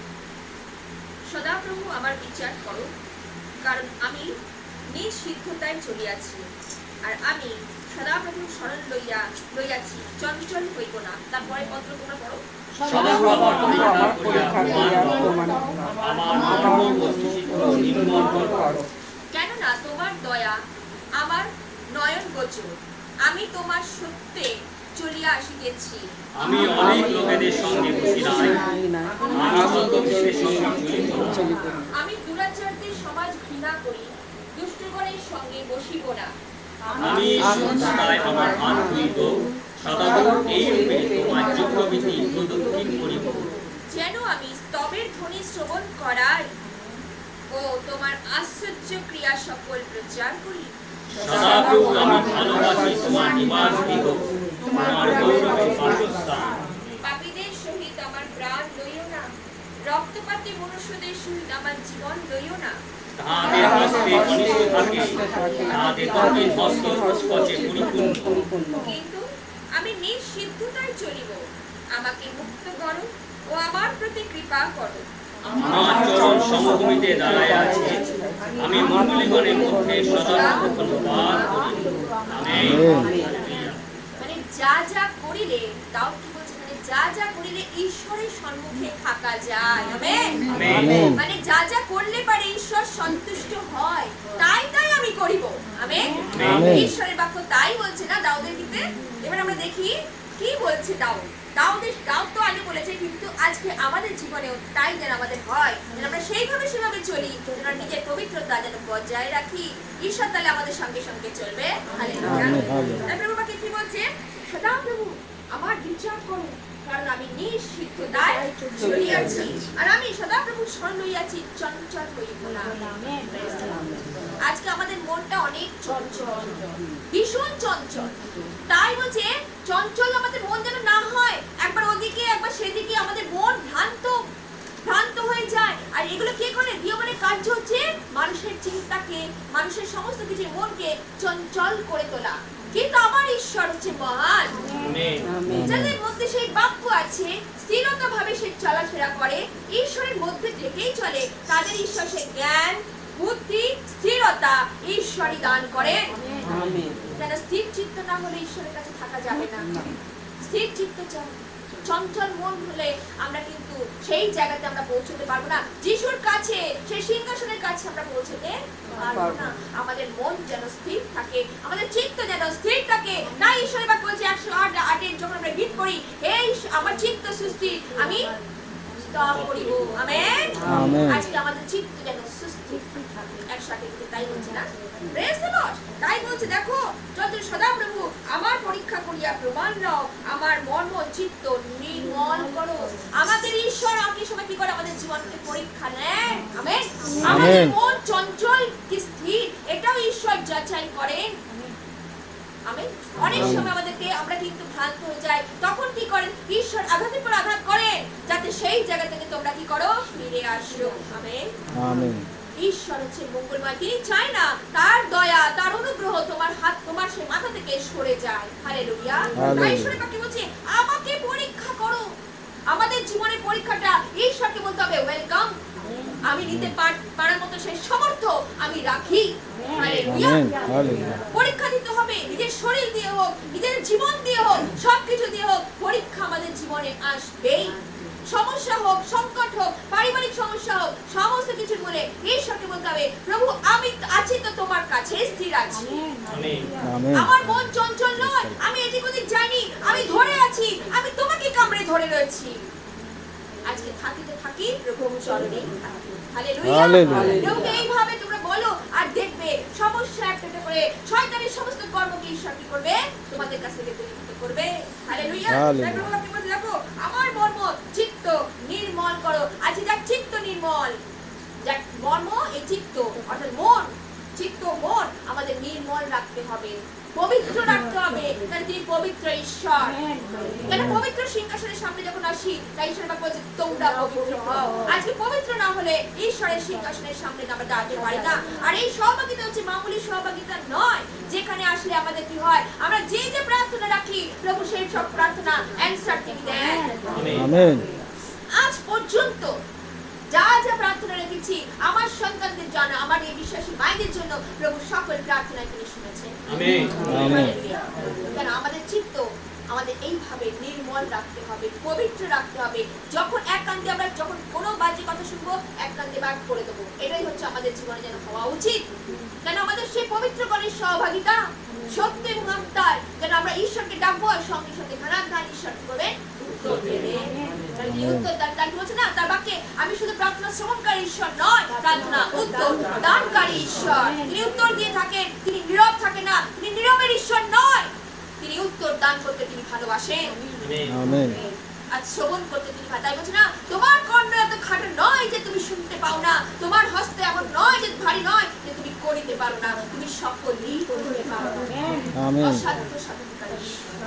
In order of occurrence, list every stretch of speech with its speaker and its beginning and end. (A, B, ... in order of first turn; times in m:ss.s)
0:01.3-0:02.9 A
0:03.6-0:04.3 A
0:04.9-0:06.4 A
0:07.0-0:12.4 A
0:12.8-0:15.3 B
0:16.0-0:18.7 B
0:19.3-0:20.6 A
0:21.2-0:22.7 A
0:23.2-0:26.1 A
0:26.4-0:28.6 B
0:29.3-0:31.4 B
0:32.0-0:36.3 A
0:37.0-0:43.5 B
0:43.9-0:46.5 A
0:47.5-0:52.9 A
0:51.2-0:57.0 B
0:57.0-0:59.3 A
0:59.9-1:02.8 A
1:03.2-1:08.3 B
1:08.8-1:09.2 A
1:09.8-1:11.4 A
1:12.0-1:15.1 A
1:15.6-1:18.0 B
1:18.6-1:21.5 B
1:20.0-1:20.6 A
1:22.3-1:23.8 B
1:22.5-1:23.1 C
1:24.2-1:30.2 A
1:30.5-1:31.1 B
1:30.7-1:31.2 C
1:31.1-2:02.7 A
1:36.3-1:36.7 B
1:36.5-1:36.9 C
1:52.3-1:53.0 C
2:04.4-2:06.5 A
2:07.1-2:08.1 A
2:08.7-2:14.2 A
2:14.8-2:24.6 A
2:24.8-2:25.3 B
2:25.5-2:26.0 C
2:25.6-2:36.0 A
2:37.2-2:39.7 A
2:40.4-2:41.3 A
2:41.8-2:58.3 A
2:59.1-3:21.3 A
2:59.4-2:59.9 B
3:00.7-3:01.2 C
3:17.3-3:17.7 C
3:22.7-3:31.4 A
3:23.2-3:23.7 C
3:31.8-3:32.2 C
3:32.6-3:42.0 A
3:39.4-3:40.0 C
3:42.7-3:45.5 A
3:46.3-3:50.5 A
3:46.4-3:46.8 C
3:49.8-3:50.2 B
3:50.1-3:51.2 C
3:51.3-3:57.8 A
3:58.3-4:05.9 A
4:06.3-4:06.7 B
4:06.9-4:08.6 C
4:07.1-4:12.5 A
4:13.7-4:15.7 A
4:16.3-4:30.9 A
4:16.6-4:17.4 C
4:25.5-4:26.1 C
4:31.6-4:40.0 A
4:40.6-4:41.0 C
4:40.7-4:56.8 A
4:57.1-4:57.5 B
4:57.3-4:57.8 C
4:58.5-4:59.5 A
5:00.3-5:06.4 A
5:06.5-5:07.0 B
5:07.0-5:18.8 A
5:07.1-5:07.5 C
5:19.4-5:27.3 A
5:27.8-5:40.3 A
5:27.9-5:28.3 C
5:40.6-5:41.0 B
5:40.9-5:41.4 C
5:41.9-5:51.6 A
5:52.2-5:52.6 C
5:52.4-5:53.8 A